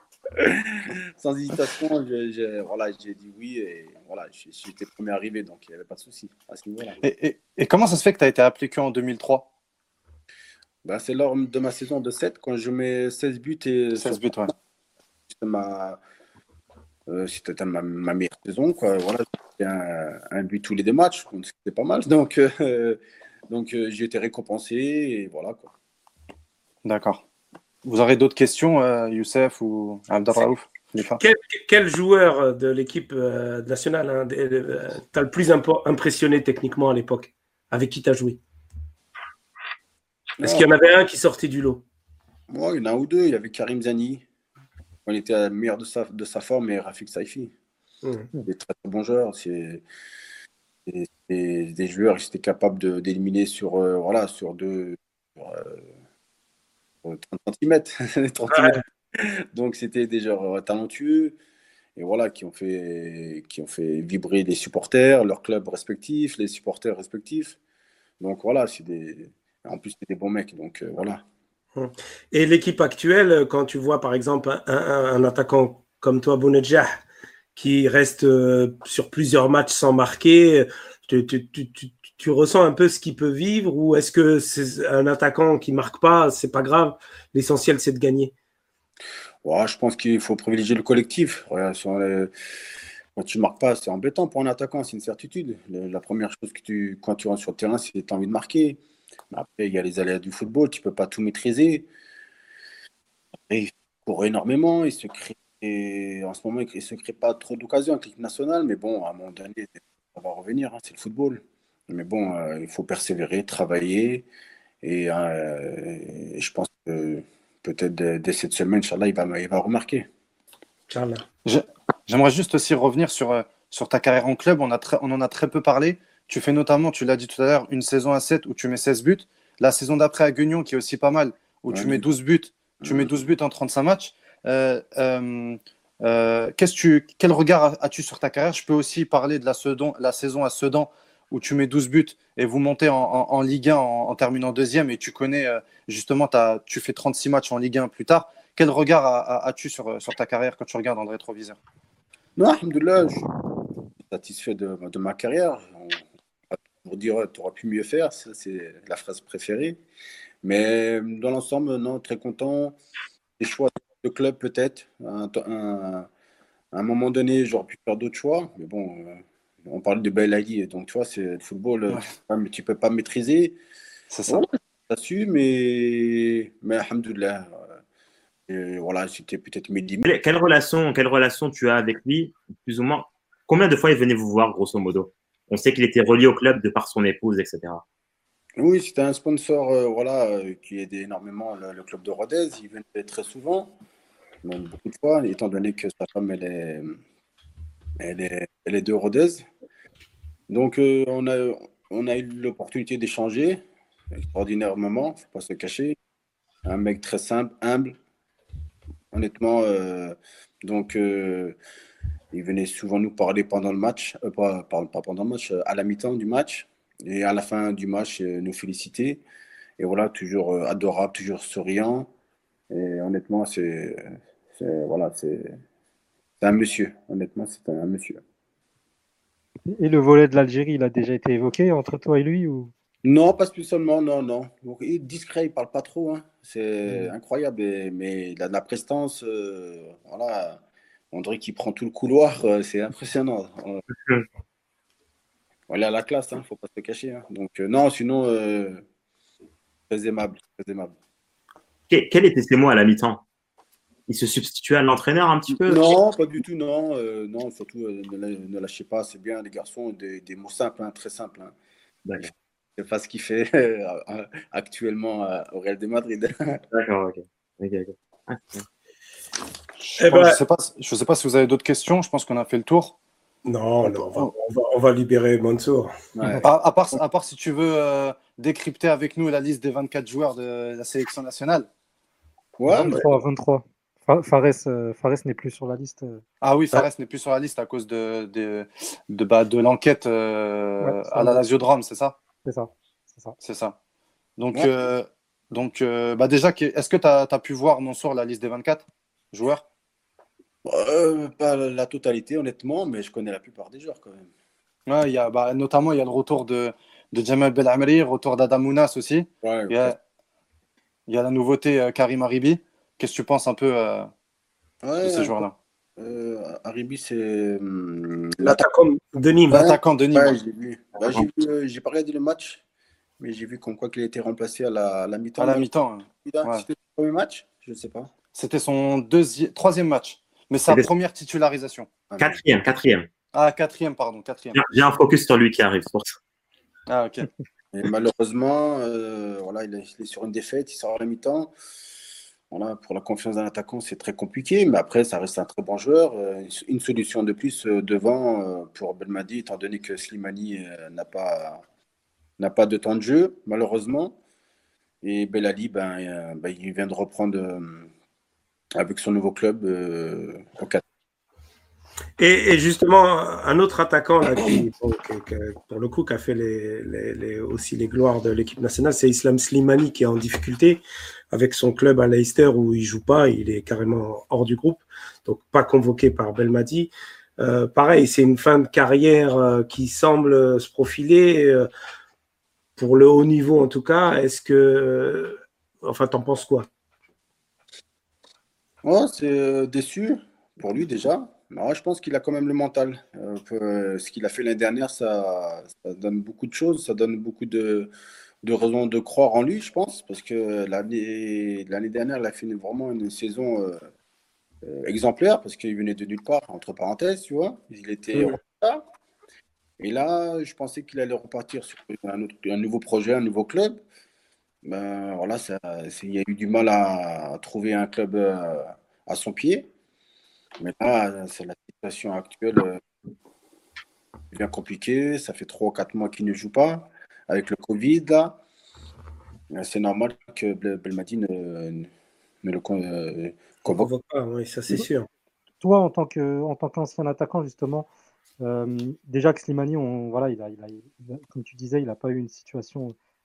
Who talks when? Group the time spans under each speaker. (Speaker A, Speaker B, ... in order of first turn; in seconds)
Speaker A: 0.3-7.0, 10.8-14.2, 15.3-16.0, 17.1-25.7, 40.4-40.7, 42.5-44.2, 45.0-47.5, 48.4-49.8, 50.9-55.9, 57.0-61.4, 62.0-67.6, 68.2-71.2, 89.4-92.3, 93.2-98.8, 99.3-101.9, 103.5-114.3, 114.8-120.1, 131.7-132.0, 132.8-133.1, 152.4-153.2, 154.1-159.8, 160.4-162.8, 163.4-166.1, 166.7-173.6, 174.3-177.8, 178.5-180.0, 188.6-193.7, 194.4-197.0, 198.0-199.4, 200.5-203.6, 204.2-206.0, 206.6-208.0, 209.1-211.6, 212.3-219.2, 219.8-222.1, 222.7-225.6, 226.4-228.2, 233.0-240.6, 241.1-243.8, 245.7-248.8, 249.9-250.9, 255.5-261.5, 262.2-266.6, 276.1-276.5, 282.6-283.1, 294.5-294.8, 300.6-304.3, 309.4-309.9, 314.8-315.4, 316.0-318.6, 319.5-322.6, 323.2-328.1, 332.1-332.4, 337.7-341.5, 342.5-351.6, 352.4-354.2, 355.0-357.9, 358.7-360.8, 388.8-397.9, 398.4-403.8, 404.6-408.8, 409.8-413.8, 414.6-419.7, 420.6-422.8, 424.3-428.4, 429.5-431.9, 432.4-433.9
Speaker B: 7.0-9.5, 13.9-14.5, 26.8-27.2, 27.8-31.2, 121.4-151.6, 174.1-174.4, 269.8-272.9, 276.4-281.7, 286.4-292.2, 293.4-293.8, 294.4-299.6, 304.9-310.0, 311.1-314.1, 315.0-315.5, 319.5-320.4, 325.4-326.6, 328.3-331.9, 333.3-334.6, 336.9-337.3
Speaker C: 31.2-38.4, 40.4-41.8, 48.0-48.3, 71.8-77.0, 77.5-88.3, 120.9-121.2, 270.0-270.4, 273.4-275.9, 318.4-319.6, 362.2-381.7, 382.8-386.7, 433.7-435.1
Speaker D: 180.0-187.8, 251.9-253.2, 254.1-255.9, 262.0-262.3, 266.7-268.6, 332.2-333.1, 334.5-336.2
Speaker E: 229.7-232.7, 282.7-286.2, 290.8-291.4, 292.4-293.3, 435.6-437.9, 438.4-442.9